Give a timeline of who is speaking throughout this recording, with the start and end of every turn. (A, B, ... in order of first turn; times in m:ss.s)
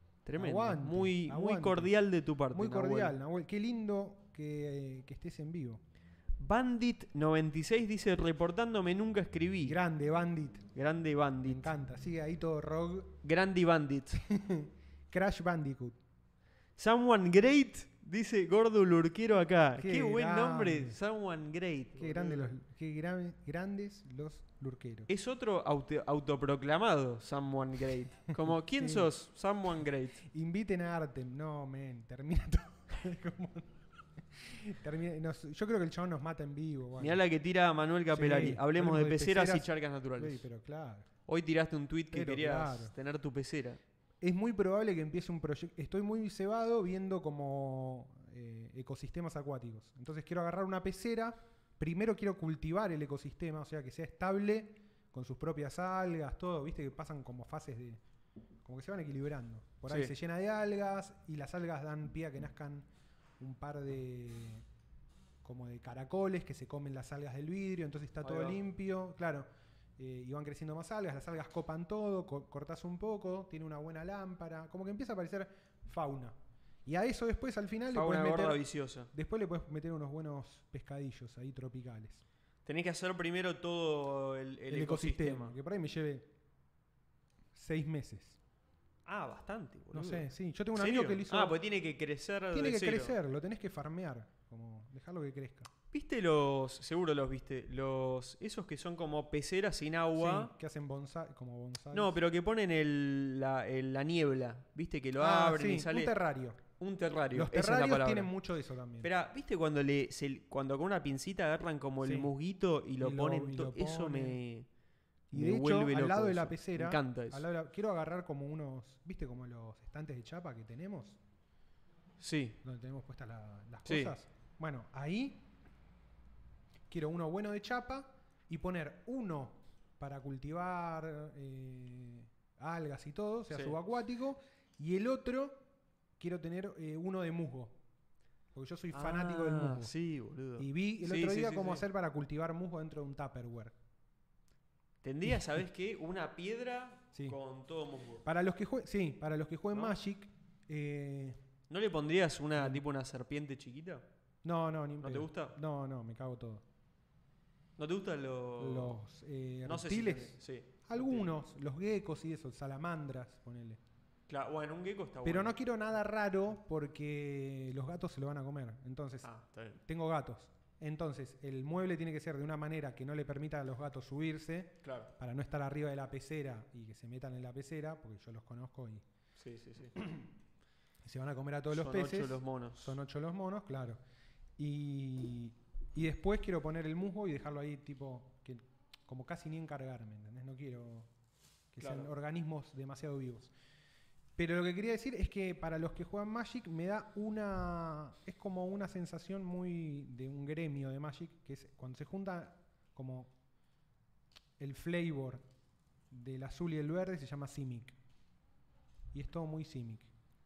0:00.3-0:03.2 A
0:00.4-0:01.9 B
0:02.5-0:05.8 B
0:06.4-0:09.8 A
0:09.6-0:10.7 B
0:10.8-0:11.7 A
0:11.4-0:13.2 B
0:13.2-0:14.2 A
0:14.3-0:16.0 B
0:16.8-0:22.6 A
0:19.8-0:21.0 B
0:22.0-0:25.1 B
0:25.1-0:30.2 A
0:28.8-0:29.1 B
0:30.3-0:37.2 B
0:37.0-0:40.4 A
0:38.1-0:41.1 B
0:41.3-0:43.8 A
0:42.1-0:42.9 B
0:44.2-0:58.0 B
0:58.6-1:02.9 B
1:03.4-1:04.6 B
1:05.4-1:09.5 B
1:08.2-1:08.6 A
1:10.0-1:22.2 B
1:17.9-1:19.1 A
1:22.7-1:25.6 A
1:24.7-1:26.3 B
1:27.6-1:28.4 B
1:29.1-1:33.2 A
1:29.9-1:31.6 B
1:32.5-1:35.7 B
1:35.9-1:40.5 A
1:40.2-1:42.2 B
1:41.9-1:46.2 A
1:45.2-1:46.6 B
1:46.8-1:48.3 A
1:47.3-1:49.1 B
1:49.0-1:54.7 A
1:52.0-1:52.3 B
1:53.0-1:54.4 B
1:55.3-2:01.2 B
1:55.3-1:57.5 A
2:02.2-2:02.6 A
2:02.6-2:05.5 B
2:03.8-2:04.1 A
2:06.9-2:15.6 B
2:13.5-2:13.8 A
2:16.2-2:17.8 B
2:18.5-2:19.9 B
2:18.9-2:21.9 A
2:20.6-2:23.7 B
2:25.0-2:28.3 A
2:28.2-2:31.4 B
2:31.7-2:34.0 A
2:32.6-2:32.8 B
2:34.4-2:36.6 B
2:35.0-2:35.6 A
2:37.8-2:39.0 A
2:38.6-2:40.4 B
2:39.6-2:41.3 A
2:40.9-2:43.8 B
2:44.3-2:45.6 A
2:45.2-2:49.3 B
2:49.2-2:49.8 A
2:49.9-2:59.0 B
2:54.8-2:55.1 A
2:59.4-3:00.0 A
3:00.0-3:00.3 B
3:01.0-3:04.0 B
3:01.7-3:03.0 A
3:04.6-3:11.1 B
3:11.7-3:13.5 B
3:11.8-3:12.1 A
3:14.4-3:23.3 B
3:24.6-3:25.4 B
3:26.1-3:28.0 B
3:29.1-3:30.1 B